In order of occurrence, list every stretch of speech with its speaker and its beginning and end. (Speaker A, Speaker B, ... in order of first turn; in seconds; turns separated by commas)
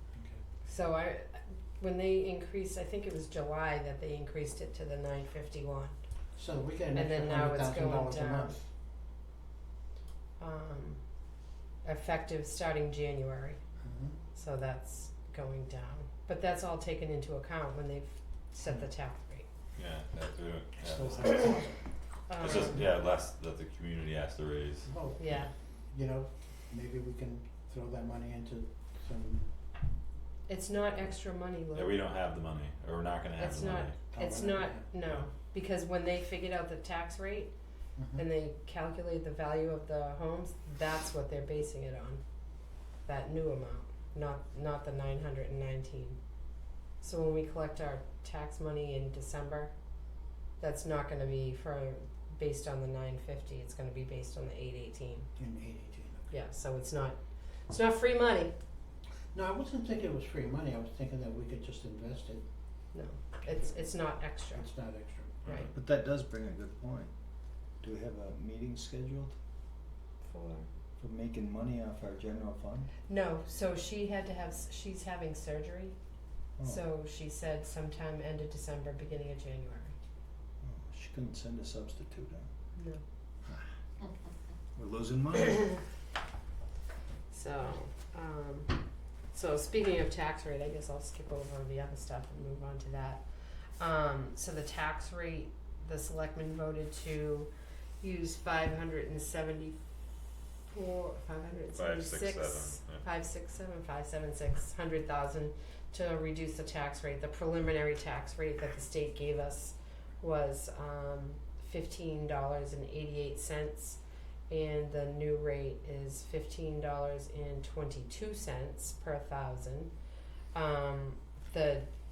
Speaker A: 0.1-0.4, Speaker B: 0.6-5.9, Speaker A: 6.3-8.6, Speaker B: 6.9-8.6, Speaker B: 10.4-11.0, Speaker B: 11.8-13.6, Speaker A: 13.8-14.2, Speaker B: 14.3-19.4, Speaker C: 19.8-21.6, Speaker A: 20.8-21.8, Speaker B: 22.3-22.9, Speaker C: 22.4-25.5, Speaker A: 24.9-25.4, Speaker B: 25.2-25.5, Speaker A: 25.9-29.5, Speaker B: 30.5-32.0, Speaker C: 31.7-34.0, Speaker B: 33.4-37.5, Speaker A: 34.1-34.9, Speaker A: 38.0-38.2, Speaker B: 38.1-42.2, Speaker B: 43.0-46.2, Speaker B: 47.0-49.7, Speaker B: 50.6-55.3, Speaker A: 55.4-56.3, Speaker B: 56.3-58.5, Speaker A: 59.3-62.4, Speaker B: 62.9-64.7, Speaker A: 64.5-65.4, Speaker B: 65.4-65.7, Speaker C: 65.4-65.7, Speaker D: 65.7-67.1, Speaker D: 67.8-69.3, Speaker B: 70.2-70.7, Speaker D: 71.0-72.9, Speaker B: 73.1-75.9, Speaker B: 76.6-79.9, Speaker D: 80.6-82.5, Speaker B: 82.8-83.0, Speaker D: 84.8-85.7, Speaker B: 87.3-88.8, Speaker B: 89.3-93.2, Speaker B: 93.8-97.5, Speaker B: 98.0-99.8, Speaker B: 100.7-119.9, Speaker C: 101.7-103.0, Speaker B: 120.5-121.9